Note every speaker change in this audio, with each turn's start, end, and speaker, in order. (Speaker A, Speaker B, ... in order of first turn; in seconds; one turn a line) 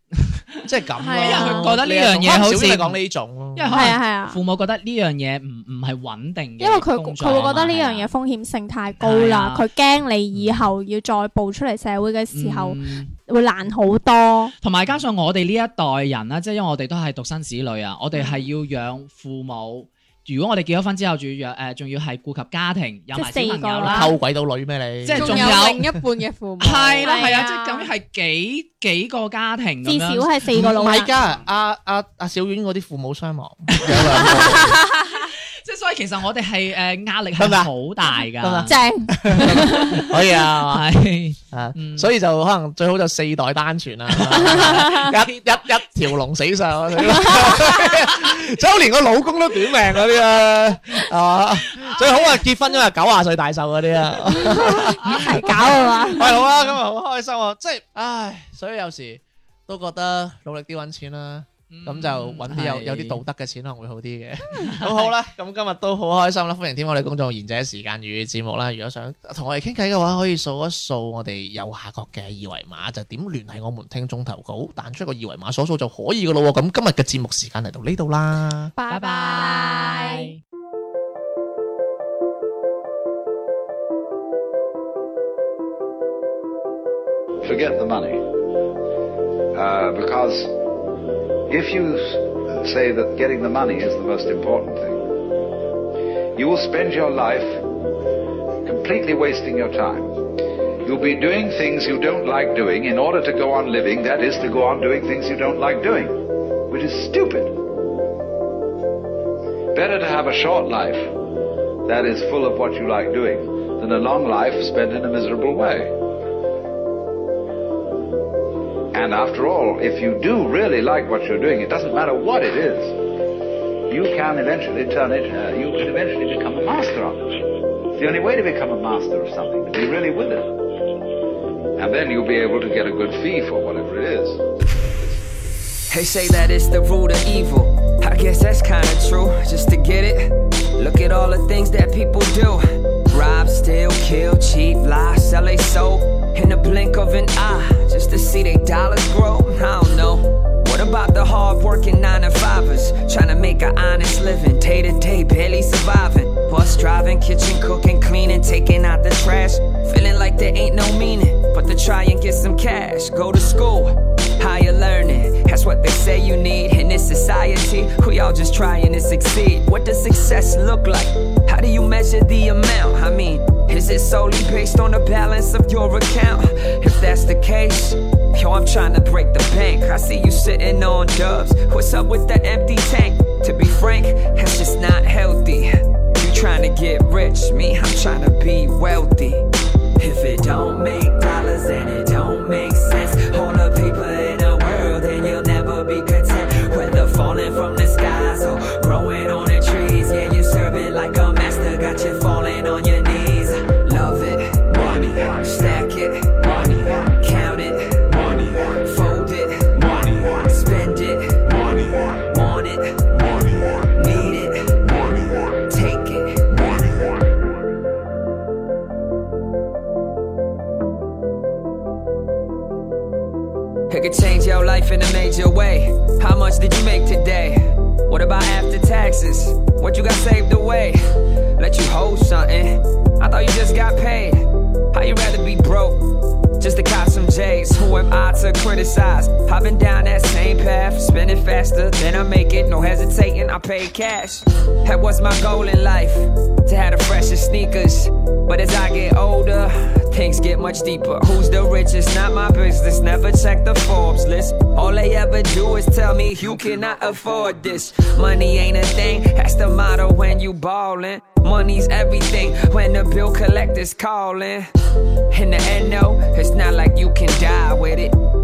Speaker A: 0.2-0.6
Speaker B: 0.6-3.9
Speaker C: 1.0-1.7
Speaker A: 1.2-3.0
Speaker A: 3.5-8.1
Speaker C: 3.7-4.4
Speaker C: 6.6-14.5
Speaker B: 7.3-7.7
Speaker A: 9.0-9.7
Speaker A: 12.3-13.1
Speaker A: 14.6-24.1
Speaker C: 23.1-24.1
Speaker B: 23.9-25.5
Speaker A: 25.0-25.9
Speaker D: 25.1-27.8
Speaker A: 26.6-30.4
Speaker C: 27.0-27.5
Speaker C: 29.8-31.1
Speaker B: 30.5-34.8
Speaker A: 33.7-38.8
Speaker C: 34.3-35.0
Speaker B: 37.4-37.7
Speaker B: 38.4-40.9
Speaker C: 38.7-40.0
Speaker A: 39.3-42.1
Speaker B: 41.5-78.7
Speaker A: 44.4-45.1
Speaker C: 44.5-45.1
Speaker C: 47.1-47.7
Speaker A: 51.8-52.3
Speaker C: 54.3-56.3
Speaker A: 55.0-55.3
Speaker D: 55.1-56.1
Speaker A: 56.3-56.7
Speaker A: 61.7-63.2
Speaker A: 64.6-65.2
Speaker D: 78.8-80.1
Speaker A: 78.9-80.4
Speaker C: 79.1-80.3
Speaker E: 87.4-88.2
Speaker E: 89.5-90.6
Speaker E: 91.5-95.2
Speaker E: 96.3-97.6
Speaker E: 98.6-100.2
Speaker E: 100.8-107.6
Speaker E: 109.7-111.1
Speaker E: 111.8-115.9
Speaker E: 118.9-123.0
Speaker E: 123.9-127.4
Speaker E: 128.0-130.5
Speaker E: 131.8-135.1
Speaker F: 135.9-189.5
Speaker F: 190.0-217.2
Speaker F: 223.9-231.0
Speaker F: 231.6-236.1
Speaker F: 236.6-264.7
Speaker F: 265.3-268.1